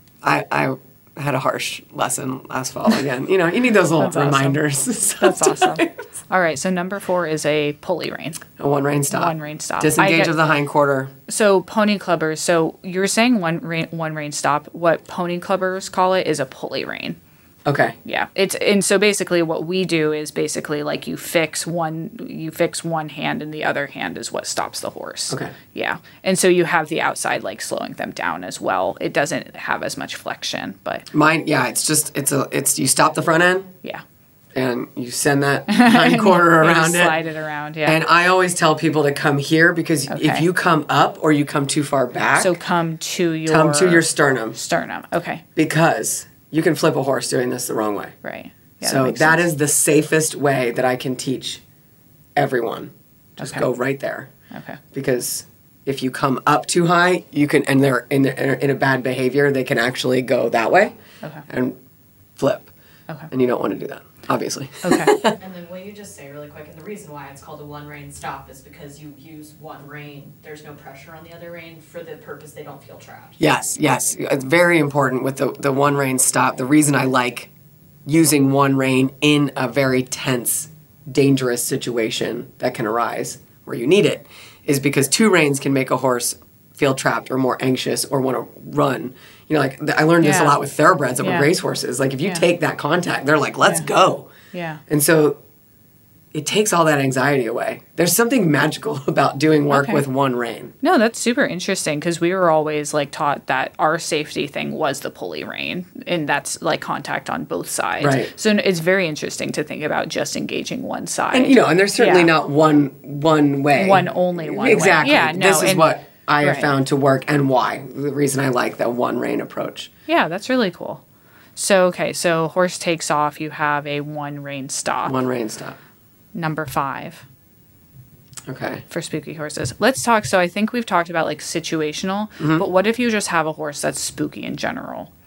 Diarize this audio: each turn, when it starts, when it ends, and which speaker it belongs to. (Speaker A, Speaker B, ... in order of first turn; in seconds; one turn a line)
Speaker A: 0.2-6.0
Speaker B: 4.0-4.6
Speaker B: 5.2-8.4
Speaker A: 8.6-11.1
Speaker B: 9.1-10.3
Speaker B: 11.3-17.2
Speaker A: 17.6-17.9
Speaker B: 18.0-31.1
Speaker A: 31.1-33.7
Speaker A: 34.5-37.1
Speaker B: 35.7-38.0
Speaker A: 37.8-42.6
Speaker B: 40.1-40.5
Speaker B: 42.4-45.4
Speaker A: 43.5-44.6
Speaker A: 45.5-48.1
Speaker B: 48.2-49.4
Speaker A: 48.8-51.6
Speaker A: 52.4-54.3
Speaker B: 53.4-53.7
Speaker B: 54.5-54.8
Speaker A: 54.9-60.9
Speaker A: 61.5-61.8
Speaker A: 62.4-62.7
Speaker A: 63.3-65.4
Speaker B: 64.8-65.2
Speaker C: 65.4-73.4
Speaker A: 73.4-77.5
Speaker A: 78.0-94.3
Speaker B: 90.2-90.6
Speaker B: 91.2-91.5
Speaker B: 94.5-94.8
Speaker A: 94.9-95.4
Speaker A: 96.3-100.7
Speaker B: 99.7-100.0
Speaker B: 100.8-112.3
Speaker A: 108.0-108.3
Speaker A: 111.3-119.9
Speaker B: 113.8-115.9
Speaker B: 116.4-116.7
Speaker B: 120.1-121.0
Speaker B: 121.5-125.2
Speaker A: 125.0-125.8
Speaker B: 126.3-127.2
Speaker A: 128.5-128.8
Speaker B: 128.9-135.1
Speaker A: 132.4-132.6